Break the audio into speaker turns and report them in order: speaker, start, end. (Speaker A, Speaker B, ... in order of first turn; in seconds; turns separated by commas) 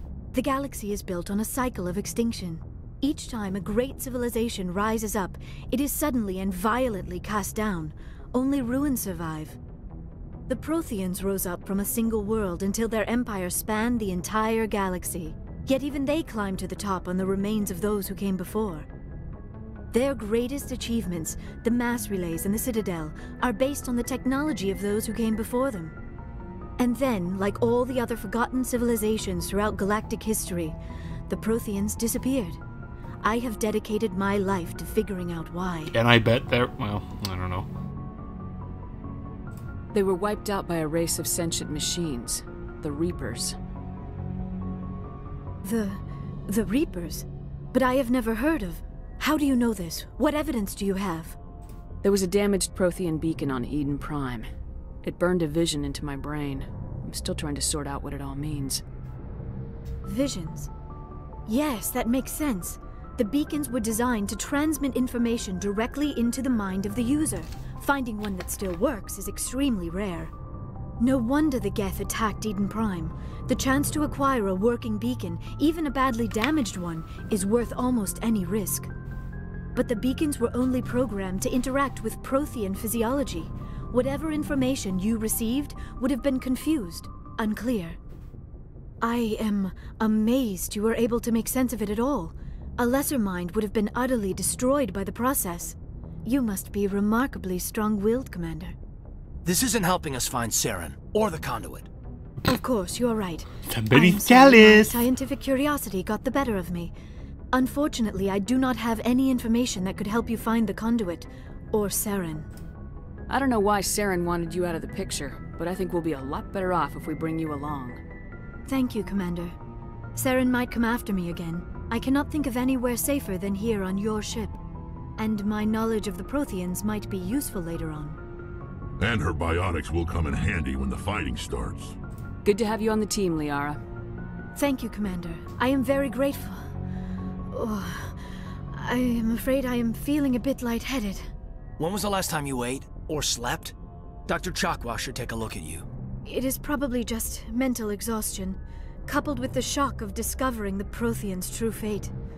Speaker A: 0.3-9.6, Speaker A: 10.5-18.9, Speaker A: 19.9-25.9, Speaker A: 26.8-32.6, Speaker A: 33.2-36.0, Speaker B: 35.9-37.7, Speaker C: 39.9-43.5, Speaker A: 45.6-51.4, Speaker C: 52.0-54.5, Speaker C: 55.0-58.8, Speaker A: 60.0-60.7, Speaker A: 61.5-70.3, Speaker A: 71.0-78.9, Speaker A: 79.7-88.0, Speaker A: 89.0-98.7, Speaker D: 99.4-101.9, Speaker A: 102.4-106.9, Speaker B: 103.7-105.0, Speaker A: 107.5-112.5, Speaker C: 113.3-118.0, Speaker A: 118.7-119.5, Speaker A: 120.1-124.6, Speaker A: 125.2-128.2, Speaker E: 129.0-132.0, Speaker C: 132.4-133.8, Speaker A: 134.6-136.7, Speaker A: 137.5-141.3, Speaker D: 141.8-143.7, Speaker D: 144.3-145.9, Speaker A: 146.2-152.1